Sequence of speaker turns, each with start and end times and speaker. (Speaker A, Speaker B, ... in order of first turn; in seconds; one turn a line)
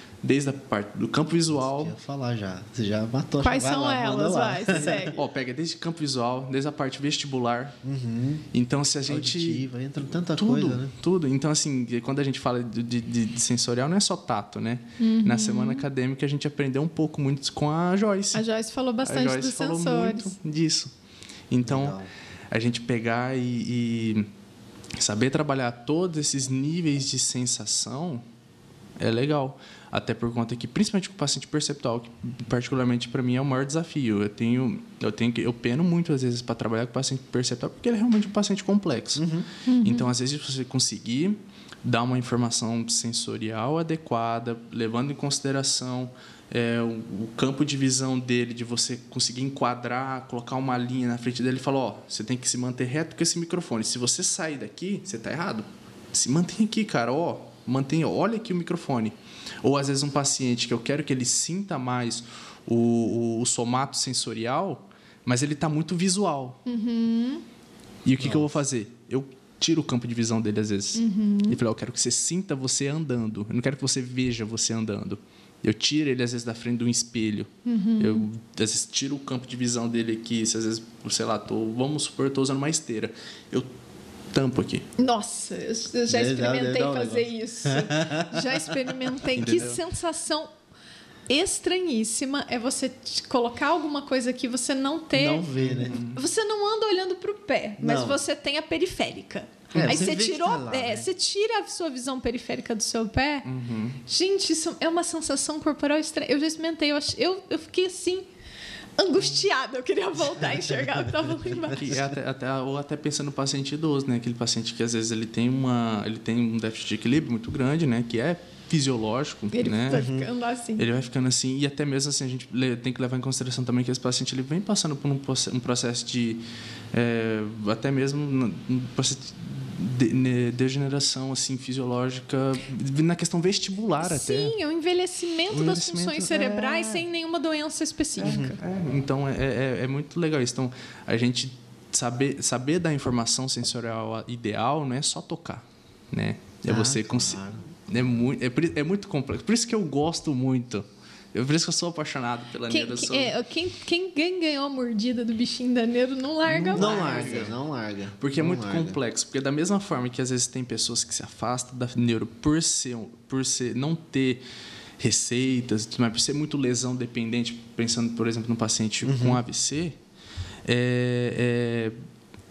Speaker A: 0.2-1.9
Speaker B: 1.5-5.2
Speaker C: 3.4-5.2
Speaker A: 5.2-7.8
Speaker B: 7.8-8.4
Speaker A: 8.5-9.6
Speaker B: 9.1-10.9
Speaker A: 10.2-18.4
Speaker C: 15.0-15.8
Speaker C: 18.3-20.3
Speaker A: 19.0-20.9
Speaker A: 21.5-22.0
Speaker B: 21.6-22.1
Speaker A: 22.5-24.3
Speaker A: 25.0-28.2
Speaker A: 29.0-39.3
Speaker B: 39.1-39.5
Speaker C: 39.6-40.1
Speaker A: 39.8-66.6
Speaker C: 66.7-67.4
Speaker A: 68.0-83.7
Speaker B: 68.2-68.5
Speaker C: 71.0-71.6
Speaker C: 77.7-78.2
Speaker A: 84.3-84.9
Speaker C: 85.0-90.5
Speaker B: 86.1-88.7
Speaker A: 89.3-89.8
Speaker C: 91.3-103.5
Speaker B: 95.1-96.0
Speaker A: 95.5-96.2
Speaker B: 97.8-98.2
Speaker A: 99.7-100.0
Speaker B: 99.7-101.1
Speaker A: 103.4-104.0
Speaker C: 104.1-108.3
Speaker C: 109.0-112.0
Speaker A: 111.7-120.1
Speaker C: 119.5-120.8
Speaker B: 119.9-120.3
Speaker A: 120.8-134.5
Speaker C: 134.0-138.6
Speaker A: 135.5-137.0
Speaker A: 138.2-153.3
Speaker B: 138.2-138.6
Speaker B: 146.7-147.7
Speaker C: 152.7-157.5
Speaker A: 156.5-157.6
Speaker B: 156.7-159.0
Speaker A: 158.2-164.4
Speaker A: 165.0-169.9
Speaker B: 169.0-169.4
Speaker A: 170.6-171.9